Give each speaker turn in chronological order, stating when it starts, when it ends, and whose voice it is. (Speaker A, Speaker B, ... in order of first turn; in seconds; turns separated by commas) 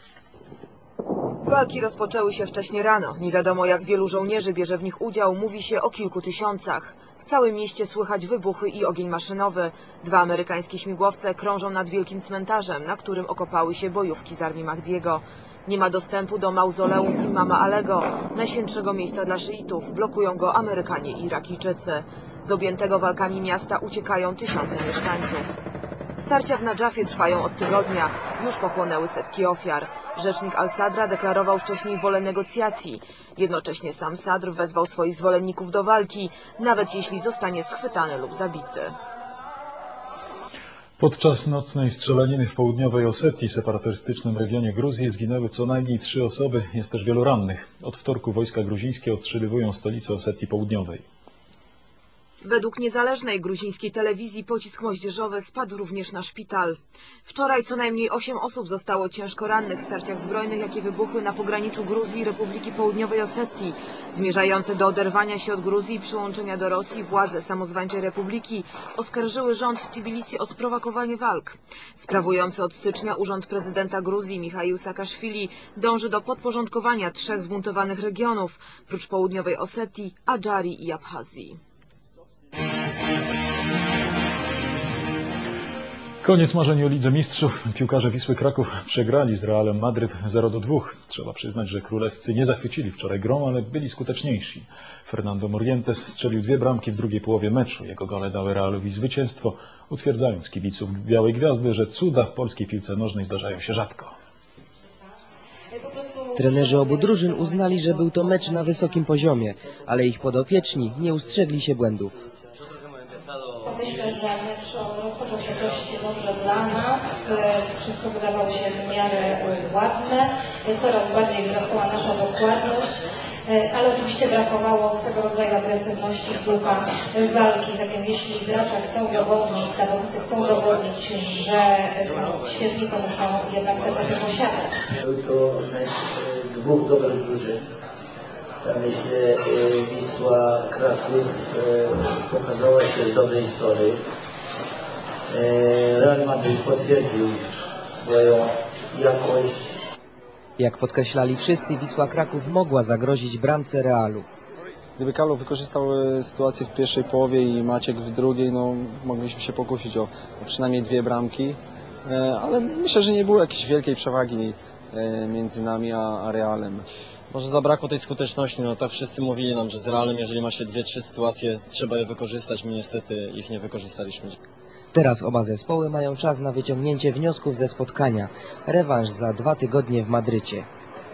Speaker A: 1.4-25.6, Speaker A: 26.2-39.0, Speaker B: 41.0-51.0, Speaker A: 52.4-81.6, Speaker B: 86.2-104.1, Speaker C: 105.7-109.0, Speaker D: 106.4-112.2, Speaker C: 113.6-134.8, Speaker E: 135.0-137.6, Speaker E: 138.6-144.0, Speaker E: 145.3-149.8, Speaker D: 150.6-154.3, Speaker F: 155.0-166.8, Speaker G: 167.3-174.4, Speaker D: 174.9-180.7